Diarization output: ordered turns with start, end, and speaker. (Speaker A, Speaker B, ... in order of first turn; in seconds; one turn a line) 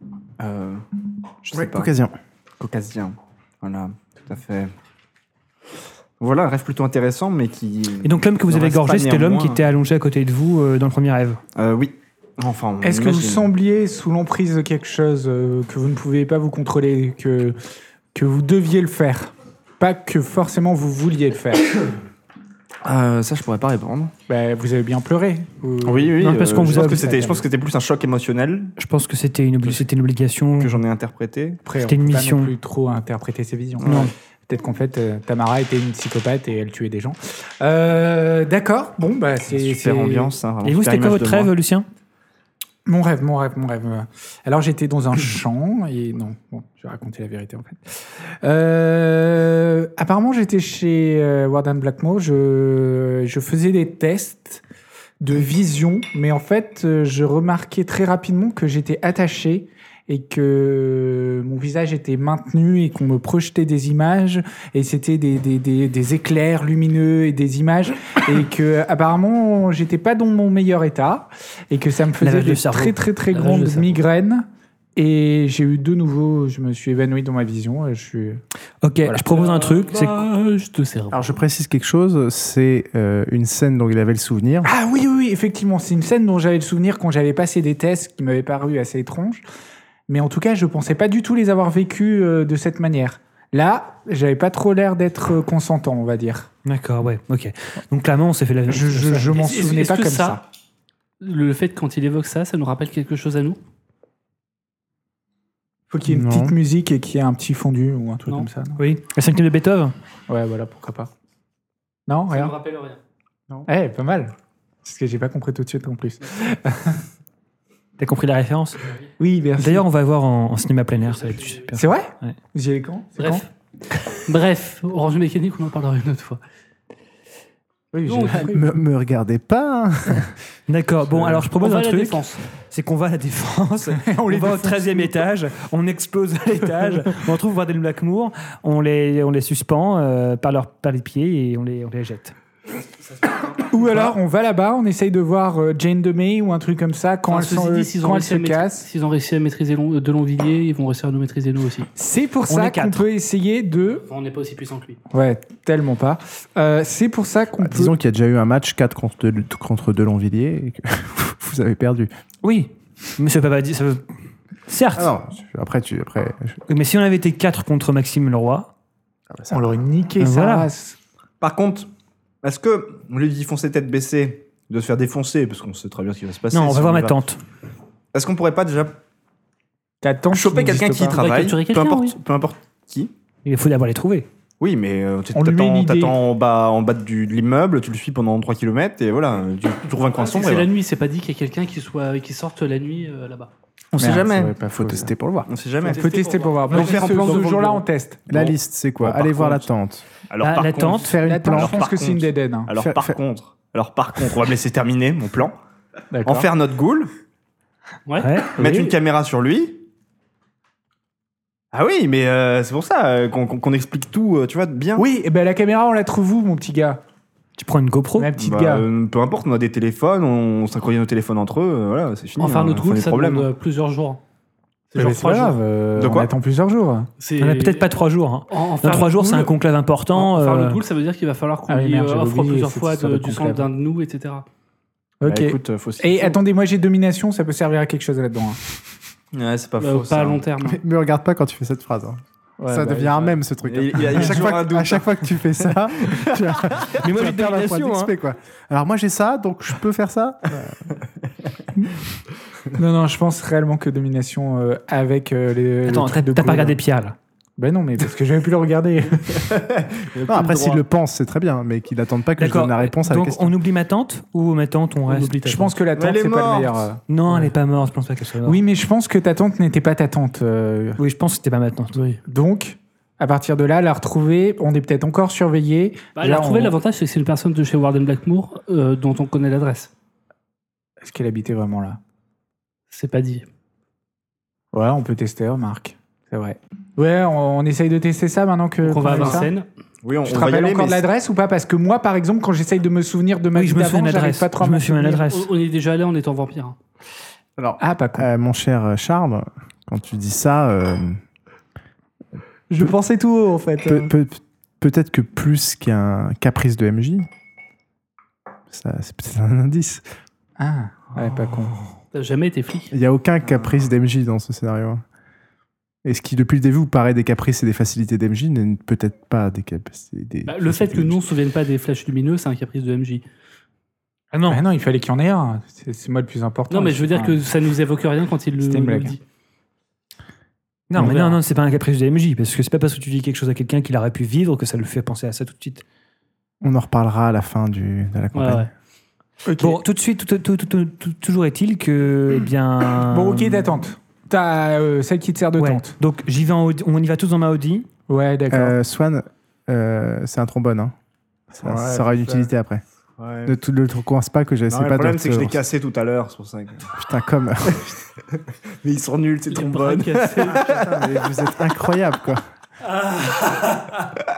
Speaker A: 0.4-0.8
Speaker A: 1.4-1.9
Speaker B: 1.5-2.2
Speaker A: 2.6-4.7
Speaker A: 6.2-9.7
Speaker C: 8.0-11.4
Speaker A: 11.6-13.5
Speaker D: 12.8-17.6
Speaker D: 18.1-21.8
Speaker A: 22.8-24.1
Speaker D: 24.3-27.5
Speaker A: 25.8-28.7
Speaker C: 26.2-27.2
Speaker C: 28.8-30.8
Speaker A: 30.6-31.6
Speaker D: 31.6-40.4
Speaker C: 31.8-32.5
Speaker A: 33.8-34.1
Speaker C: 33.8-34.1
Speaker A: 39.5-41.5
Speaker C: 40.6-41.9
Speaker D: 42.9-54.6
Speaker D: 55.2-78.4
Speaker C: 72.2-73.0
Speaker E: 73.3-74.0
Speaker C: 78.8-80.3
Speaker E: 79.2-81.4
Speaker B: 81.1-84.7
Speaker D: 84.7-89.4
Speaker D: 90.1-96.5
Speaker C: 96.7-99.4
Speaker D: 98.7-100.4
Speaker E: 99.3-100.4
Speaker E: 101.2-103.6
Speaker D: 105.9-108.8
Speaker B: 106.1-106.6
Speaker C: 108.8-109.9
Speaker D: 110.3-111.1
Speaker D: 112.1-112.5
Speaker E: 112.3-113.0
Speaker D: 113.7-117.0
Speaker C: 118.0-118.8
Speaker E: 118.8-119.1
Speaker D: 119.2-119.8
Speaker C: 119.6-122.4
Speaker E: 121.0-121.7
Speaker D: 121.8-123.4
Speaker E: 123.2-123.5
Speaker E: 124.1-126.4
Speaker D: 127.9-128.7
Speaker E: 128.1-128.6
Speaker B: 128.5-130.3
Speaker C: 130.7-142.3
Speaker E: 131.5-132.4
Speaker D: 134.0-135.1
Speaker E: 143.0-143.6
Speaker D: 143.6-148.9
Speaker C: 143.9-144.1
Speaker E: 147.3-151.9
Speaker D: 152.0-154.0
Speaker C: 152.5-153.1
Speaker E: 153.9-155.0
Speaker D: 155.1-157.9
Speaker B: 157.6-162.1
Speaker C: 162.4-164.1
Speaker C: 164.7-165.1
Speaker B: 164.9-166.6
Speaker C: 166.7-168.7
Speaker B: 169.3-169.7
Speaker D: 169.5-171.0
Speaker C: 170.2-170.7
Speaker A: 171.4-171.9
Speaker A: 172.4-177.2
Speaker C: 176.5-177.4
Speaker A: 178.1-179.0
Speaker D: 180.0-181.2
Speaker A: 180.3-183.1
Speaker E: 181.1-182.2
Speaker C: 183.4-184.3
Speaker A: 184.6-190.7
Speaker D: 185.3-186.2
Speaker E: 190.1-193.5
Speaker A: 193.9-194.6
Speaker D: 194.0-195.1
Speaker B: 194.7-195.5
Speaker A: 195.4-196.1
Speaker E: 195.8-197.8
Speaker D: 195.8-199.7
Speaker A: 196.7-197.8
Speaker B: 198.3-200.1
Speaker A: 200.3-205.6
Speaker C: 200.4-201.2
Speaker B: 200.9-201.8
Speaker D: 201.2-202.7
Speaker B: 202.8-203.2
Speaker D: 206.1-206.5
Speaker A: 206.2-207.1
Speaker E: 208.1-208.4
Speaker C: 208.2-208.6
Speaker A: 208.6-209.8
Speaker A: 211.7-215.1
Speaker D: 215.0-217.0
Speaker C: 217.6-218.3
Speaker D: 218.2-218.9
Speaker A: 218.4-223.5
Speaker E: 222.4-224.2
Speaker E: 224.9-225.6
Speaker D: 224.9-227.1
Speaker A: 225.9-226.3
Speaker E: 227.2-227.9
Speaker C: 227.4-230.8
Speaker E: 228.5-229.5
Speaker E: 230.1-234.5
Speaker D: 231.7-233.7
Speaker D: 235.2-238.6
Speaker A: 235.2-236.4
Speaker A: 239.3-240.4
Speaker E: 239.8-240.8
Speaker B: 240.6-250.9
Speaker D: 242.6-243.4
Speaker A: 243.6-247.4
Speaker C: 246.9-248.1
Speaker D: 252.8-256.8
Speaker C: 255.8-257.2
Speaker D: 257.6-259.5
Speaker A: 259.3-260.9
Speaker B: 260.3-263.6
Speaker C: 262.4-265.4
Speaker E: 265.1-265.8
Speaker D: 265.4-267.5
Speaker A: 265.9-266.9
Speaker C: 267.1-268.6
Speaker D: 268.4-271.0
Speaker C: 271.0-272.0
Speaker E: 271.9-272.2
Speaker D: 272.2-276.8
Speaker E: 276.2-279.9
Speaker D: 281.0-282.0
Speaker E: 282.9-283.4
Speaker D: 284.7-289.5
Speaker E: 288.8-289.7
Speaker A: 289.0-289.4
Speaker A: 290.0-291.0
Speaker D: 290.2-295.3
Speaker C: 293.5-295.5
Speaker E: 295.3-296.8
Speaker B: 297.6-301.2
Speaker D: 297.8-298.3
Speaker D: 302.7-304.1
Speaker B: 303.9-307.3
Speaker B: 308.7-310.1
Speaker D: 310.6-311.8
Speaker E: 312.1-312.9
Speaker B: 312.9-315.0
Speaker A: 313.5-313.8
Speaker B: 316.1-321.2
Speaker E: 320.5-323.2
Speaker C: 324.3-324.6
Speaker D: 324.5-327.4
Speaker E: 326.7-329.2
Speaker D: 328.6-329.2
Speaker C: 330.9-335.8
Speaker D: 330.9-331.4
Speaker B: 336.6-338.7
Speaker E: 338.4-338.7
Speaker D: 339.5-339.8
Speaker C: 339.6-343.7
Speaker D: 343.0-345.9
Speaker C: 345.6-347.9
Speaker D: 348.1-348.8
Speaker B: 348.5-350.9
Speaker B: 351.5-352.8
Speaker D: 351.6-352.5
Speaker A: 353.2-353.6
Speaker B: 353.4-355.6
Speaker A: 354.7-356.9
Speaker B: 356.9-358.0
Speaker A: 357.7-361.1
Speaker E: 359.5-360.7
Speaker B: 360.5-362.4
Speaker C: 362.9-364.0